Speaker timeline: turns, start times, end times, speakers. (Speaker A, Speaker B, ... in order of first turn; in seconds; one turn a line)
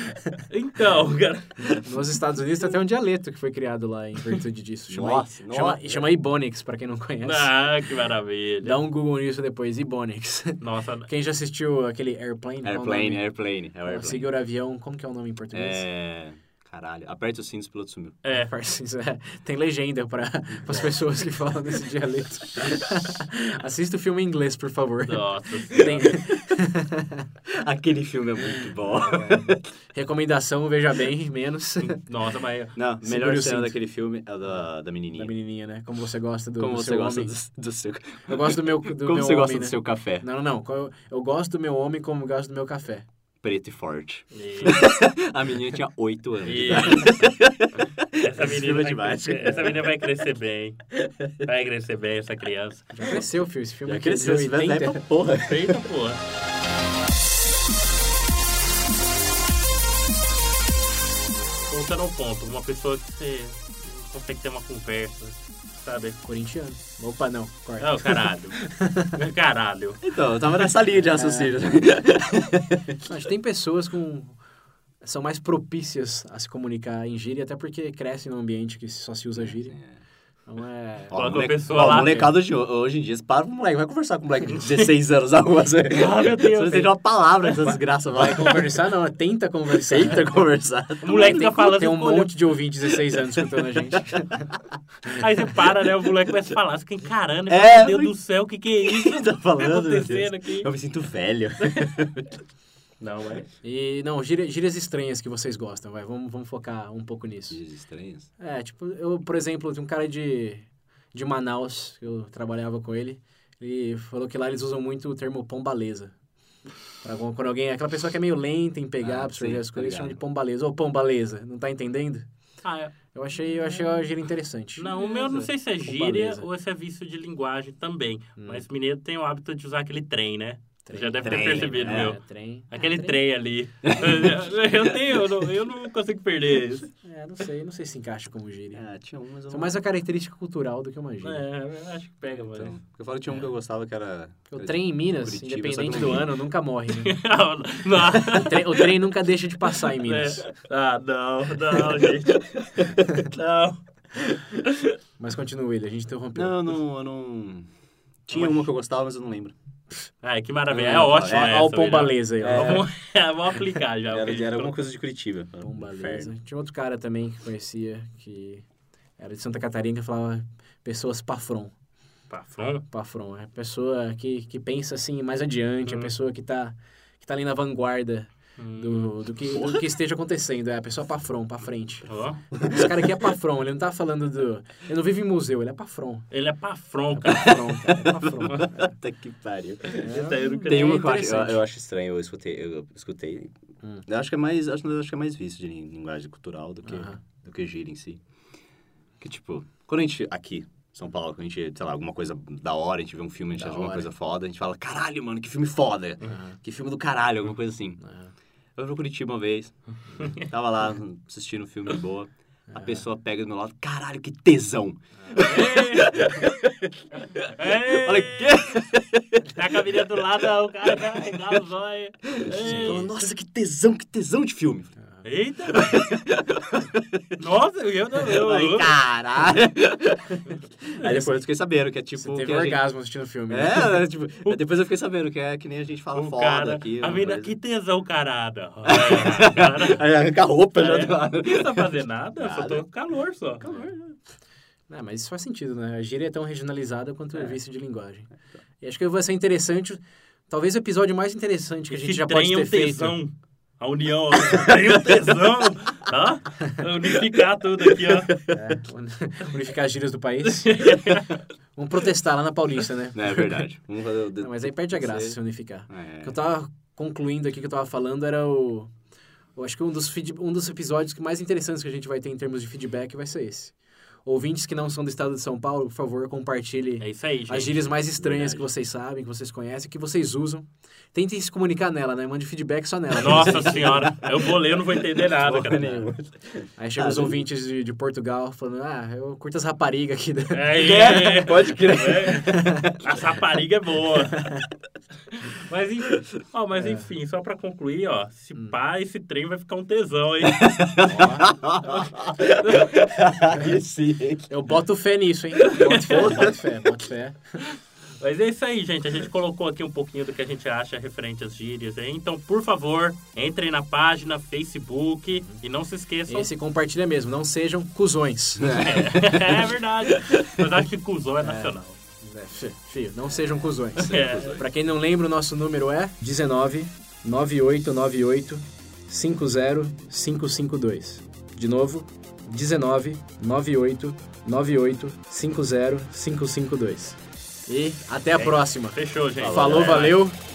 Speaker A: 0.5-1.8
Speaker B: 1.8-7.5
Speaker C: 4.9-6.1
Speaker A: 7.2-8.8
Speaker B: 8.6-15.9
Speaker A: 10.6-11.1
Speaker C: 12.6-14.3
Speaker C: 15.5-18.2
Speaker A: 18.2-18.5
Speaker B: 18.3-27.2
Speaker A: 20.6-21.1
Speaker A: 25.1-26.2
Speaker C: 25.9-26.4
Speaker C: 27.6-29.6
Speaker B: 29.9-32.0
Speaker A: 32.1-32.8
Speaker C: 32.8-35.3
Speaker B: 33.0-33.8
Speaker B: 35.1-37.4
Speaker C: 36.6-40.3
Speaker B: 38.3-43.1
Speaker C: 43.4-47.7
Speaker A: 44.3-44.8
Speaker A: 46.4-47.2
Speaker A: 48.2-53.2
Speaker C: 48.2-50.0
Speaker B: 52.9-55.1
Speaker C: 53.9-55.8
Speaker A: 55.5-56.2
Speaker A: 61.7-66.2
Speaker B: 66.2-69.1
Speaker A: 67.8-70.0
Speaker C: 70.0-72.8
Speaker B: 71.1-71.6
Speaker B: 73.0-74.4
Speaker B: 75.0-79.8
Speaker C: 79.4-80.0
Speaker B: 80.5-82.3
Speaker C: 81.1-88.6
Speaker A: 81.1-82.3
Speaker A: 84.5-84.9
Speaker A: 85.9-86.9
Speaker B: 87.6-90.4
Speaker C: 89.7-91.7
Speaker A: 91.0-92.3
Speaker B: 91.2-94.5
Speaker A: 95.1-100.7
Speaker C: 97.5-98.2
Speaker C: 98.8-102.3
Speaker A: 101.7-101.9
Speaker A: 103.0-103.5
Speaker B: 103.6-107.6
Speaker C: 107.5-108.3
Speaker B: 108.4-116.1
Speaker B: 117.0-122.3
Speaker C: 119.0-120.2
Speaker A: 122.6-123.0
Speaker B: 123.1-125.0
Speaker A: 124.8-136.9
Speaker C: 125.0-125.5
Speaker B: 125.8-126.5
Speaker B: 128.4-128.7
Speaker B: 130.8-133.2
Speaker C: 131.2-132.2
Speaker C: 133.8-134.4
Speaker B: 137.0-138.8
Speaker C: 138.7-139.8
Speaker B: 139.5-141.5
Speaker A: 141.2-142.8
Speaker C: 142.5-146.3
Speaker B: 144.5-147.2
Speaker A: 147.0-148.9
Speaker B: 148.2-150.5
Speaker A: 149.6-153.8
Speaker A: 154.6-154.9
Speaker B: 155.2-156.7
Speaker C: 156.3-157.7
Speaker C: 158.3-159.6
Speaker A: 158.3-158.7
Speaker A: 160.2-164.8
Speaker B: 160.7-162.8
Speaker C: 160.9-161.6
Speaker C: 162.4-162.9
Speaker C: 164.1-166.3
Speaker B: 165.6-168.7
Speaker B: 169.2-171.7
Speaker A: 172.3-172.8
Speaker B: 172.9-186.3
Speaker A: 175.9-176.1
Speaker A: 178.6-179.2
Speaker C: 179.5-179.9
Speaker A: 182.1-182.4
Speaker C: 182.6-183.1
Speaker A: 186.3-187.8
Speaker B: 187.1-189.0
Speaker C: 187.5-193.5
Speaker A: 189.9-191.3
Speaker B: 190.0-191.6
Speaker C: 194.1-198.2
Speaker B: 196.8-197.2
Speaker C: 199.2-208.0
Speaker B: 203.6-204.1
Speaker B: 206.2-206.6
Speaker B: 208.0-208.3
Speaker C: 208.8-219.5
Speaker B: 212.7-213.1
Speaker B: 215.2-215.5
Speaker A: 215.4-216.3
Speaker A: 217.6-218.6
Speaker A: 219.6-223.1
Speaker C: 222.4-225.0
Speaker B: 222.5-223.1
Speaker B: 225.0-225.3
Speaker A: 225.2-226.1
Speaker C: 225.7-227.3
Speaker A: 227.4-228.9
Speaker C: 228.3-230.4
Speaker C: 231.0-232.9
Speaker B: 231.0-231.5
Speaker B: 232.2-234.0
Speaker C: 233.5-237.5
Speaker A: 236.1-240.0
Speaker C: 238.9-242.8
Speaker A: 240.8-243.7
Speaker C: 243.6-244.2
Speaker B: 243.7-243.9
Speaker B: 244.9-248.3
Speaker B: 248.8-253.2
Speaker A: 251.9-258.3
Speaker C: 258.0-258.6
Speaker B: 258.5-260.9
Speaker A: 260.5-261.4
Speaker B: 261.8-263.6
Speaker C: 263.1-266.4
Speaker B: 264.4-268.9
Speaker B: 269.6-284.1
Speaker A: 277.0-277.9
Speaker C: 278.0-278.7
Speaker A: 283.2-286.1
Speaker C: 283.2-287.4
Speaker B: 285.8-286.1
Speaker B: 286.8-290.9
Speaker A: 290.5-294.6
Speaker C: 290.8-292.5
Speaker B: 292.4-293.0
Speaker A: 295.3-300.8
Speaker B: 296.7-297.1
Speaker C: 300.4-304.7
Speaker B: 301.0-301.5
Speaker A: 302.6-303.1
Speaker B: 304.5-307.4
Speaker C: 305.6-306.6
Speaker A: 305.7-306.5
Speaker A: 307.6-316.5
Speaker B: 315.3-315.6
Speaker B: 316.3-318.8
Speaker C: 318.6-320.7
Speaker A: 318.8-322.0
Speaker B: 321.4-340.4
Speaker A: 324.0-324.6
Speaker C: 324.0-324.6
Speaker A: 338.3-340.3
Speaker C: 339.4-340.0